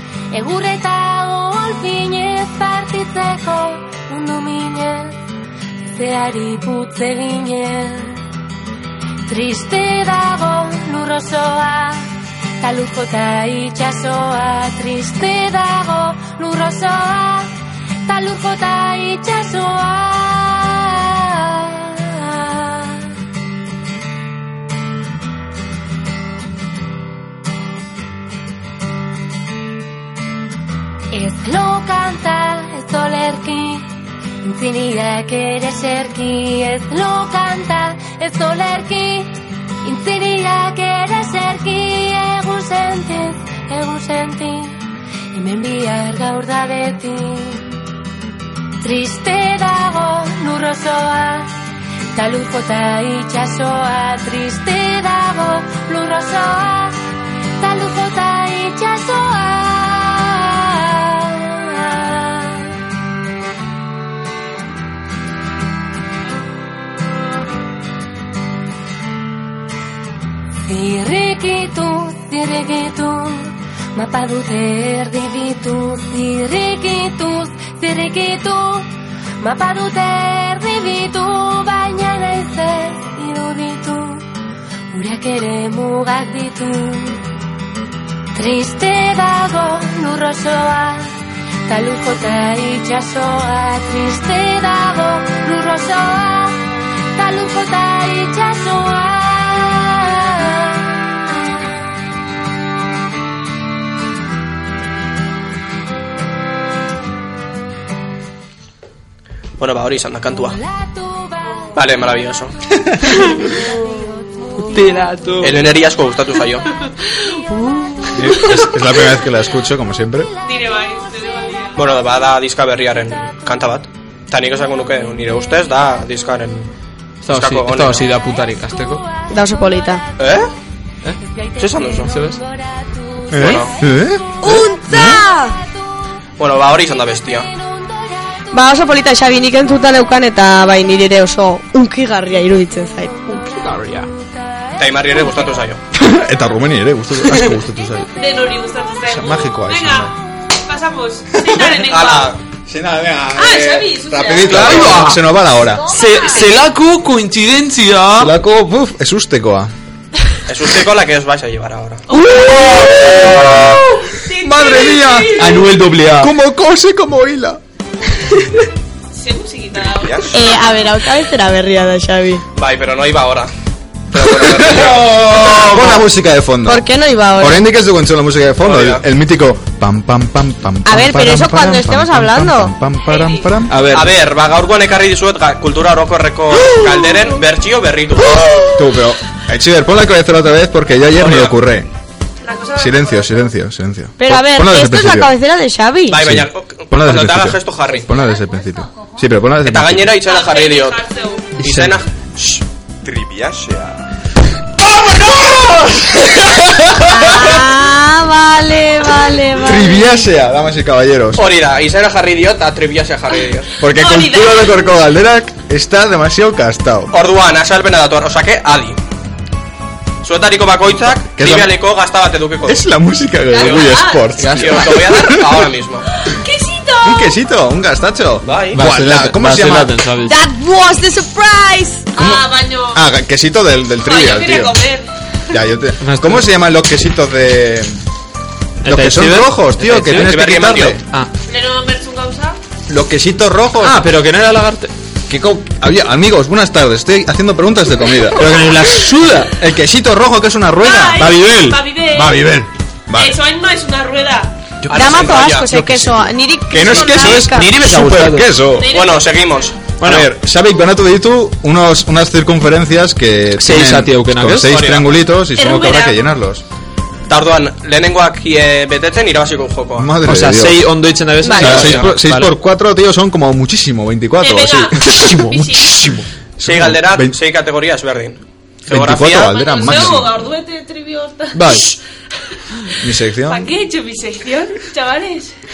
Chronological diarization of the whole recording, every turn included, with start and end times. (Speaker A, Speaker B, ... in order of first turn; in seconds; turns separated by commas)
Speaker A: 0.3-5.2, Speaker A: 5.9-8.2, Speaker A: 9.2-17.5, Speaker A: 18.0-23.1, Speaker A: 31.1-33.9, Speaker A: 34.4-47.8, Speaker A: 48.8-51.5, Speaker A: 52.1-57.0, Speaker A: 57.6-62.7, Speaker A: 70.7-84.2, Speaker A: 84.9-87.2, Speaker A: 88.3-91.1, Speaker A: 91.7-101.0, Speaker B: 109.6-110.6, Speaker A: 111.0-111.3, Speaker B: 111.7-112.5, Speaker A: 113.5-114.9, Speaker C: 114.7-115.6, Speaker B: 115.4-116.7, Speaker D: 118.1-120.3, Speaker E: 120.4-121.8, Speaker B: 121.8-126.7, Speaker C: 127.2-129.0, Speaker B: 127.3-128.1, Speaker F: 129.3-130.0, Speaker B: 130.2-130.5, Speaker A: 131.4-133.7, Speaker B: 131.6-132.1, Speaker C: 132.1-132.4, Speaker D: 133.3-135.2, Speaker B: 133.3-133.7, Speaker F: 134.4-135.6, Speaker A: 134.5-135.2, Speaker B: 136.4-137.5, Speaker F: 138.5-143.3, Speaker A: 143.3-143.7, Speaker C: 143.7-144.0, Speaker B: 144.8-145.8, Speaker D: 145.9-148.1, Speaker E: 148.2-150.2, Speaker D: 149.1-150.2, Speaker E: 150.7-152.3, Speaker D: 151.3-151.7, Speaker B: 151.6-152.4, Speaker D: 152.7-156.0, Speaker E: 153.3-154.7, Speaker C: 154.5-155.2, Speaker B: 154.5-155.0, Speaker C: 155.9-158.3, Speaker D: 158.2-159.7, Speaker B: 160.5-162.0, Speaker C: 162.2-164.1, Speaker F: 162.4-163.1, Speaker E: 164.1-165.7, Speaker D: 164.4-167.6, Speaker C: 165.3-166.3, Speaker E: 169.1-170.5, Speaker B: 169.8-170.4, Speaker F: 170.3-172.4, Speaker B: 172.6-173.5, Speaker B: 174.1-175.5, Speaker D: 174.2-176.8, Speaker C: 175.1-176.0, Speaker F: 176.7-177.6, Speaker D: 177.4-183.8, Speaker B: 178.6-179.0, Speaker F: 180.8-182.7, Speaker E: 183.1-183.5, Speaker C: 183.7-184.1, Speaker B: 183.8-188.5, Speaker D: 188.7-191.9, Speaker B: 191.2-191.6, Speaker E: 192.4-193.5, Speaker D: 192.8-195.3, Speaker F: 194.2-196.3, Speaker B: 196.1-198.1, Speaker D: 196.2-200.2, Speaker B: 199.6-201.0, Speaker E: 200.2-201.5, Speaker B: 201.6-202.6, Speaker D: 203.1-203.6, Speaker B: 203.2-203.9, Speaker D: 204.8-207.5, Speaker F: 207.1-210.2, Speaker D: 209.5-211.4, Speaker B: 211.4-213.7, Speaker D: 213.8-217.1, Speaker E: 213.8-214.8, Speaker B: 217.1-219.0, Speaker B: 220.2-222.8, Speaker D: 221.3-221.7, Speaker D: 222.7-225.7, Speaker E: 223.5-224.8, Speaker B: 223.5-226.0, Speaker E: 226.2-227.3, Speaker D: 227.0-230.0, Speaker B: 228.4-228.8, Speaker C: 228.7-230.3, Speaker F: 230.2-232.0, Speaker E: 232.2-233.0, Speaker D: 232.2-234.8, Speaker E: 234.0-235.1, Speaker D: 235.5-238.0, Speaker C: 236.0-236.4, Speaker C: 238.8-240.3, Speaker D: 238.8-241.0, Speaker B: 240.1-241.0, Speaker C: 241.0-241.3, Speaker E: 241.5-242.6, Speaker D: 242.9-244.1, Speaker C: 243.8-244.9, Speaker D: 245.3-248.5, Speaker C: 248.3-249.6, Speaker D: 249.6-251.3, Speaker E: 250.8-252.5, Speaker C: 251.2-251.8, Speaker D: 252.1-253.4, Speaker E: 253.1-254.6, Speaker B: 254.8-256.1, Speaker F: 254.9-257.7, Speaker D: 256.7-258.9, Speaker C: 257.1-258.5, Speaker E: 258.8-259.5, Speaker B: 258.9-259.9, Speaker C: 260.0-260.3, Speaker D: 260.0-266.6, Speaker C: 263.6-264.7, Speaker B: 264.6-265.2, Speaker E: 265.5-266.2, Speaker B: 267.3-270.2, Speaker D: 270.0-270.9, Speaker C: 270.2-272.5, Speaker F: 271.4-271.8, Speaker B: 271.5-272.1, Speaker D: 271.6-275.4, Speaker E: 274.4-276.0, Speaker C: 275.0-276.2, Speaker D: 276.6-277.4, Speaker B: 276.6-280.1, Speaker D: 278.9-280.4, Speaker E: 279.5-281.8, Speaker C: 281.5-281.9, Speaker D: 281.6-281.9, Speaker D: 283.0-283.8, Speaker E: 283.5-285.5